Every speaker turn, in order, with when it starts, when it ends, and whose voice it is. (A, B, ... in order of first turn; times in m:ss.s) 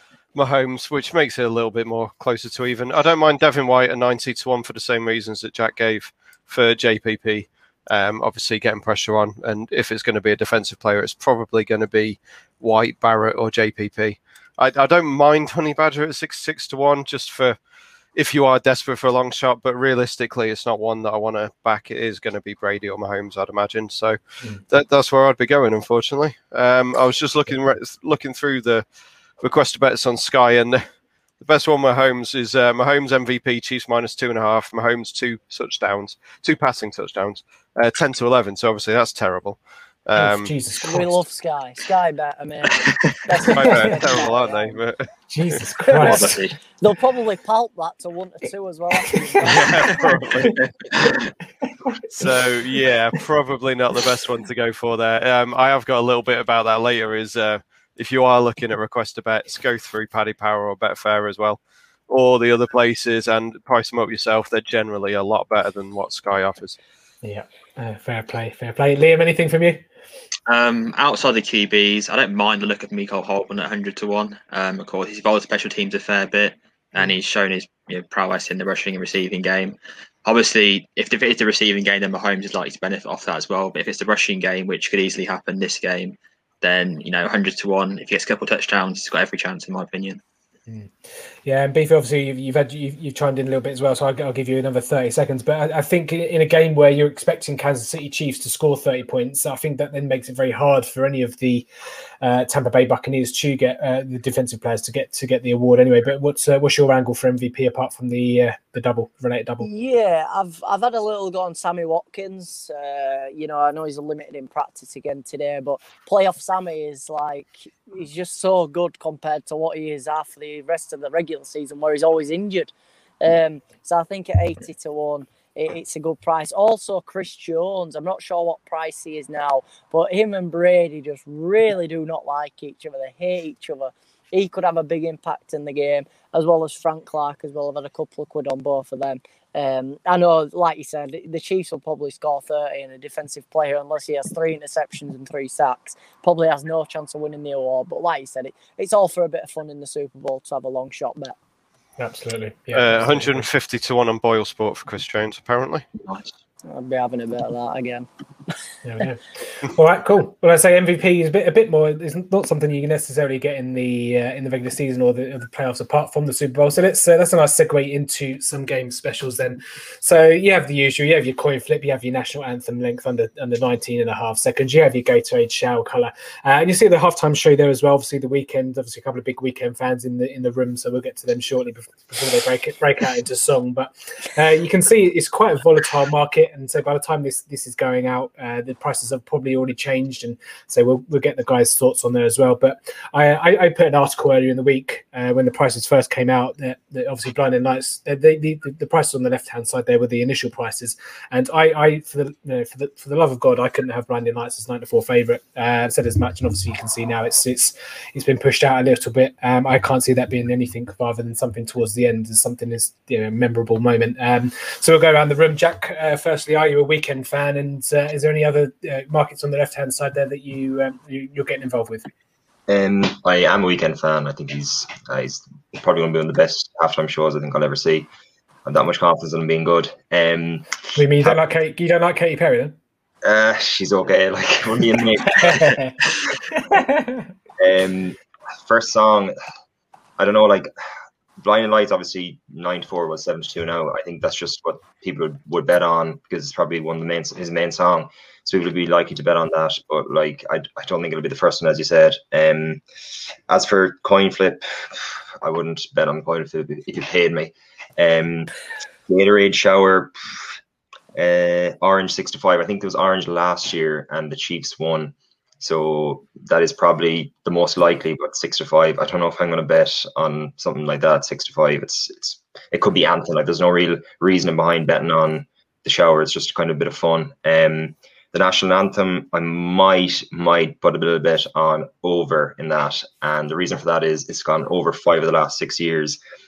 0:00.4-0:17.6 A
0:18.1-0:24.2 A
0:24.7-0:28.8 A
0:29.4-0:30.9 A
0:31.4-0:40.5 A
0:40.2-0:41.2 B
0:40.8-0:44.8 C
0:43.4-0:45.6 A
0:43.7-0:44.0 B
0:45.3-0:46.5 B
0:45.9-0:46.2 C
0:46.0-0:46.6 D
0:46.8-0:49.9 C
0:49.4-0:50.6 A
0:49.4-0:50.5 B
0:50.6-0:51.3 D
0:51.9-0:52.8 B
0:52.2-1:06.8 A
1:07.2-1:09.8 B
1:10.5-1:30.2 D
1:30.7-1:30.9 B
1:31.4-1:41.6 B
1:42.2-1:49.7 B
1:49.6-2:31.4 C
2:32.0-2:33.4 B
2:32.7-2:35.8 A
2:36.0-2:36.3 D
2:36.7-2:38.1 C
2:38.8-3:42.1 B
3:42.7-3:48.1 E
3:48.6-3:51.4 E
3:50.9-3:52.8 B
3:53.2-3:55.8 E
3:55.4-3:55.9 B
3:56.7-3:57.3 B
3:57.6-3:59.3 E
4:00.2-4:00.7 E
4:01.4-4:12.8 E
4:13.5-4:18.5 E
4:19.1-4:20.5 E
4:21.1-4:46.2 E